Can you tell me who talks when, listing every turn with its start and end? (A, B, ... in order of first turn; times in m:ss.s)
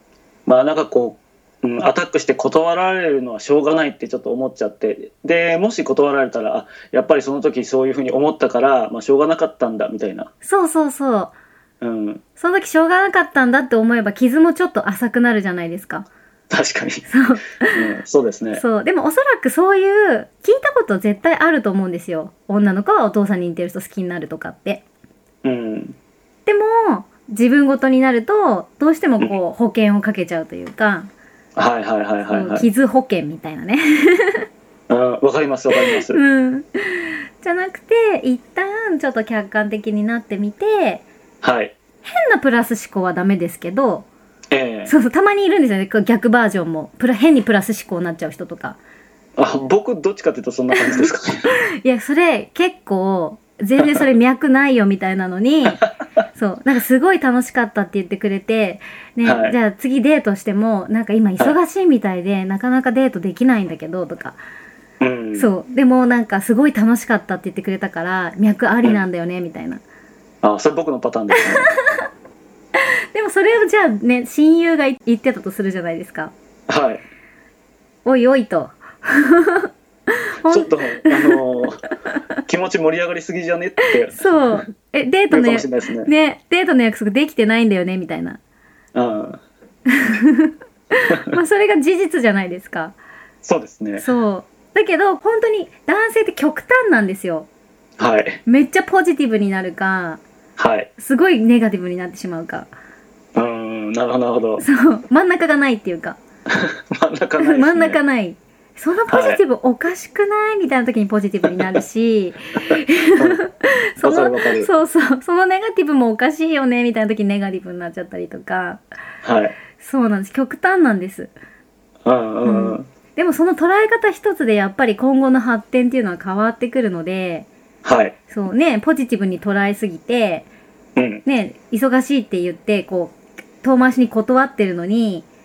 0:00.4-0:10.3 A
0:10.4-0:11.3 B
0:11.8-0:12.2 A
0:12.4-0:16.1 B
0:16.5-0:17.1 A
0:17.1-0:17.9 B
0:17.7-0:18.6 A
0:18.5-0:24.8 B
0:25.4-0:26.0 A
0:26.4-0:31.1 B
0:31.6-0:32.7 A
0:32.2-0:34.5 B
0:34.9-0:36.2 A
0:35.7-0:41.0 B
0:41.4-0:41.7 A
0:42.0-0:44.1 B
0:44.5-0:44.9 A
0:44.8-0:48.8 B
0:49.4-0:51.4 A
0:50.8-1:04.4 B
0:53.8-0:54.0 A
0:59.2-0:59.6 A
1:05.0-1:05.5 A
1:05.3-1:09.8 B
1:10.4-1:11.7 A
1:11.6-1:11.9 B
1:12.7-1:16.3 B
1:16.7-1:17.0 A
1:18.0-1:21.4 B
1:20.4-1:21.8 A
1:22.4-1:24.6 A
1:24.1-1:28.4 B
1:25.3-1:26.1 A
1:28.9-1:29.4 A
1:29.9-1:33.0 B
1:33.4-1:34.1 A
1:34.0-1:37.5 B
1:38.0-1:38.4 A
1:38.4-1:40.2 B
1:40.6-1:40.9 A
1:41.0-1:42.7 B
1:43.3-1:44.6 A
1:44.6-1:46.2 B
1:46.5-1:48.0 A
1:47.4-1:58.8 B
1:49.1-1:49.4 A
1:51.4-1:51.8 A
1:52.7-1:53.4 A
1:54.0-1:54.7 A
1:59.2-1:59.5 A
1:59.8-2:01.3 B
2:02.0-2:02.9 A
2:02.4-2:07.5 B
2:07.8-2:08.1 A
2:08.3-2:10.5 B
2:11.0-2:11.2 A
2:11.2-2:15.3 B